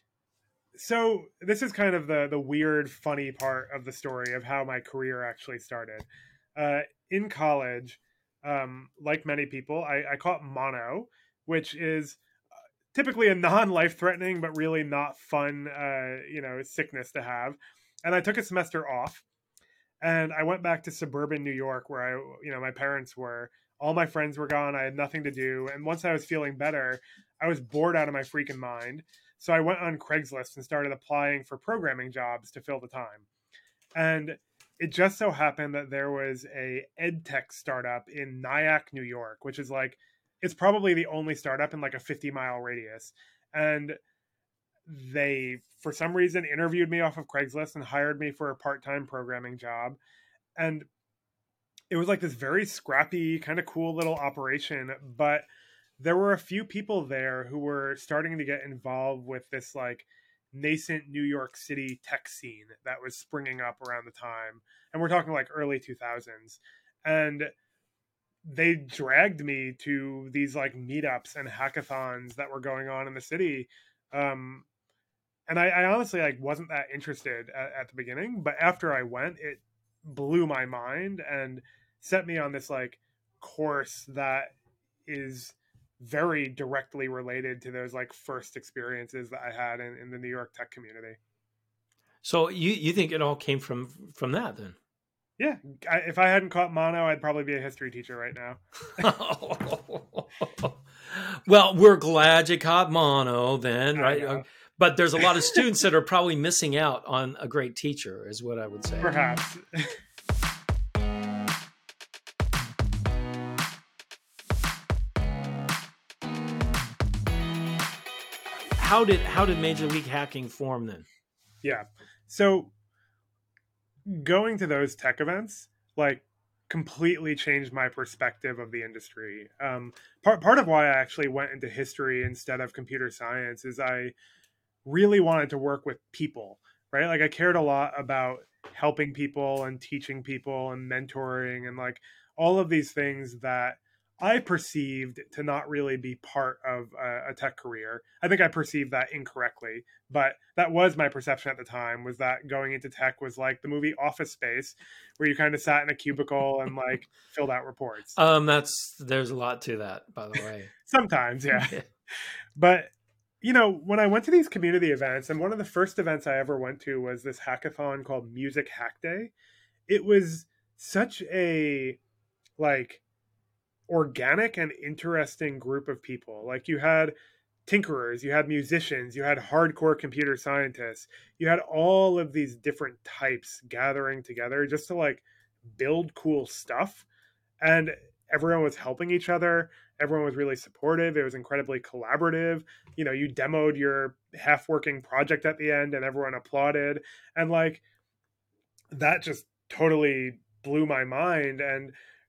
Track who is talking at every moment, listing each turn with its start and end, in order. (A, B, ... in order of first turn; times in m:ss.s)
0:00.8-0:12.2 A
0:12.9-0:19.2 A
0:20.0-0:33.3 A
0:34.0-0:44.0 A
0:44.9-0:50.0 A
0:50.6-0:50.9 A
0:51.9-0:55.5 A
0:56.0-1:07.5 A
1:08.4-1:14.7 A
1:15.5-1:24.5 A
1:25.1-1:31.2 A
1:32.2-1:34.8 B
1:35.4-1:39.1 A
1:39.0-1:49.1 B
1:44.0-1:44.4 A
1:49.0-1:50.0 A
1:58.8-2:01.1 B
2:01.6-2:02.7 A
2:04.1-2:14.1 A
2:14.8-2:38.2 A
2:38.2-2:40.7 B
2:40.9-2:41.7 A
2:41.6-2:41.8 B
2:42.6-2:49.3 A
2:49.9-2:52.0 A
2:52.6-2:53.0 A
2:53.9-2:57.1 A
2:57.7-3:07.1 A
3:07.6-3:17.8 A
3:18.9-3:21.9 A